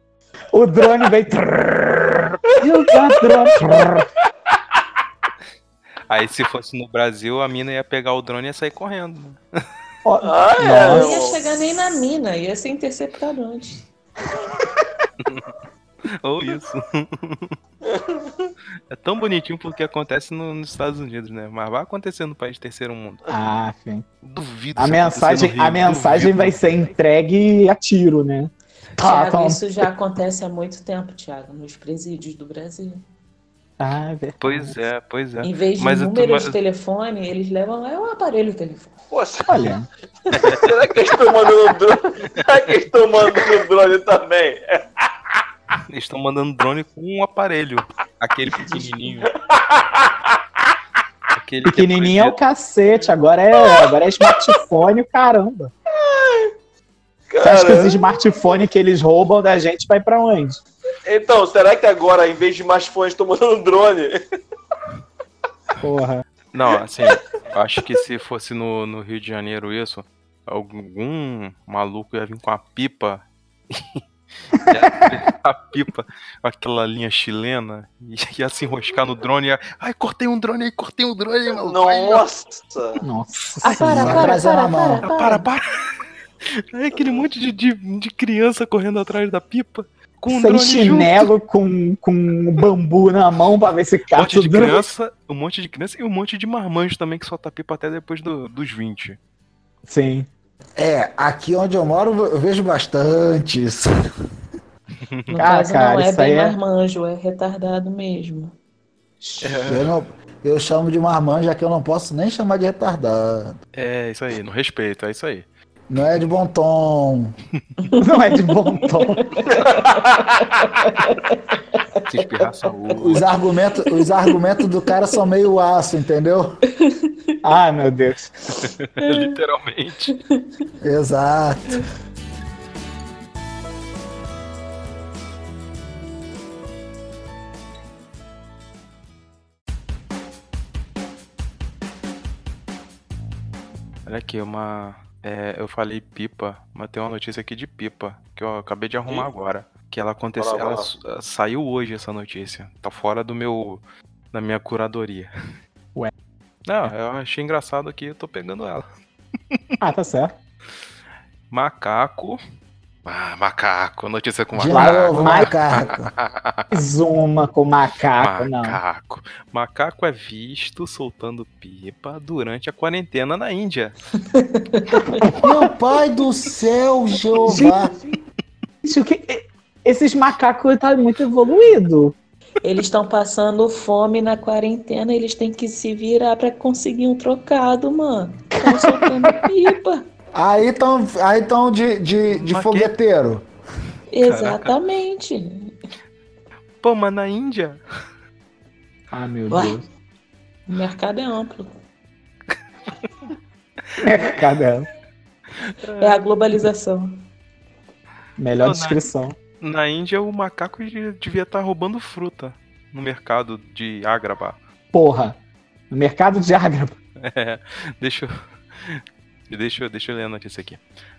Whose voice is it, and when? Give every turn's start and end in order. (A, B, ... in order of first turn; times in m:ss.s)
0:00.5-0:04.0 A
0:02.6-0:03.8 B
0:06.1-0:09.4 C
0:10.0-0:11.1 A
0:10.2-0:11.4 B
0:10.8-0:13.8 D
0:15.2-0:15.5 C
0:16.1-0:17.6 C
0:17.8-0:18.5 B
0:18.9-0:23.3 C
0:23.3-0:24.1 A
0:24.2-0:26.6 C
0:24.8-0:29.6 A
0:29.0-0:33.0 D
0:33.8-0:34.7 A
0:34.4-0:36.6 C
0:35.4-0:38.9 D
0:39.1-0:39.8 B
0:39.5-0:39.9 A
0:40.3-0:45.1 B
0:40.4-0:40.7 C
0:45.9-0:49.3 C
0:49.4-0:50.4 B
0:51.3-0:52.4 C
0:51.6-0:55.7 A
0:53.6-0:54.5 B
0:55.9-0:56.5 B
0:57.3-0:58.2 B
0:57.4-1:00.6 A
1:01.0-1:04.1 B
1:05.8-1:06.2 A
1:06.5-1:14.0 C
1:14.5-1:15.2 A
1:14.6-1:22.2 C
1:21.5-1:23.0 B
1:23.0-1:24.4 A
1:23.6-1:25.4 D
1:23.8-1:25.1 E
1:25.0-1:31.3 C
1:26.9-1:27.2 B
1:30.3-1:34.9 A
1:34.1-1:39.2 C
1:39.9-1:40.3 A
1:40.8-1:43.9 E
1:45.1-1:45.4 C
1:45.3-1:48.5 D
1:45.4-1:46.6 A
1:49.2-1:49.6 A
1:49.4-1:49.9 C
1:49.6-1:53.6 E
1:53.8-1:55.5 C
1:55.9-1:57.4 E
1:57.8-2:02.0 D
1:58.0-1:59.2 A
1:59.5-2:00.3 B
2:02.0-2:03.3 C
2:02.9-2:06.6 E
2:03.8-2:05.1 D
2:06.8-2:07.4 D
2:07.4-2:08.3 A
2:08.6-2:10.1 C
2:09.0-2:09.4 D
2:10.1-2:10.6 D
2:10.8-2:11.8 E
2:24.1-2:35.3 C
2:30.4-2:30.9 B
2:36.7-2:38.9 C
2:39.8-2:40.4 A
2:41.5-2:42.4 C
2:43.0-2:46.8 C
2:44.6-2:46.1 E
2:44.7-2:45.5 A
2:46.7-2:48.8 A
2:48.2-2:53.9 C
2:54.3-2:55.3 D
2:55.4-2:57.9 E
2:57.4-2:58.0 A
2:58.8-3:02.1 A
3:02.6-3:10.1 D
3:08.6-3:09.0 A
3:10.4-3:13.4 E
3:12.3-3:12.9 C
3:14.1-3:15.8 D
3:14.2-3:14.7 C
3:16.8-3:17.8 C
3:19.1-3:19.8 A
3:19.5-3:19.8 D
3:20.7-3:21.7 D
3:24.0-3:24.9 A
3:24.1-3:24.4 C
3:25.6-3:26.2 C
3:26.0-3:27.2 D
3:28.4-3:29.4 A
3:28.6-3:29.0 C
3:29.6-3:34.6 C
3:34.9-3:35.4 A
3:35.9-3:37.0 A
3:37.2-3:40.8 C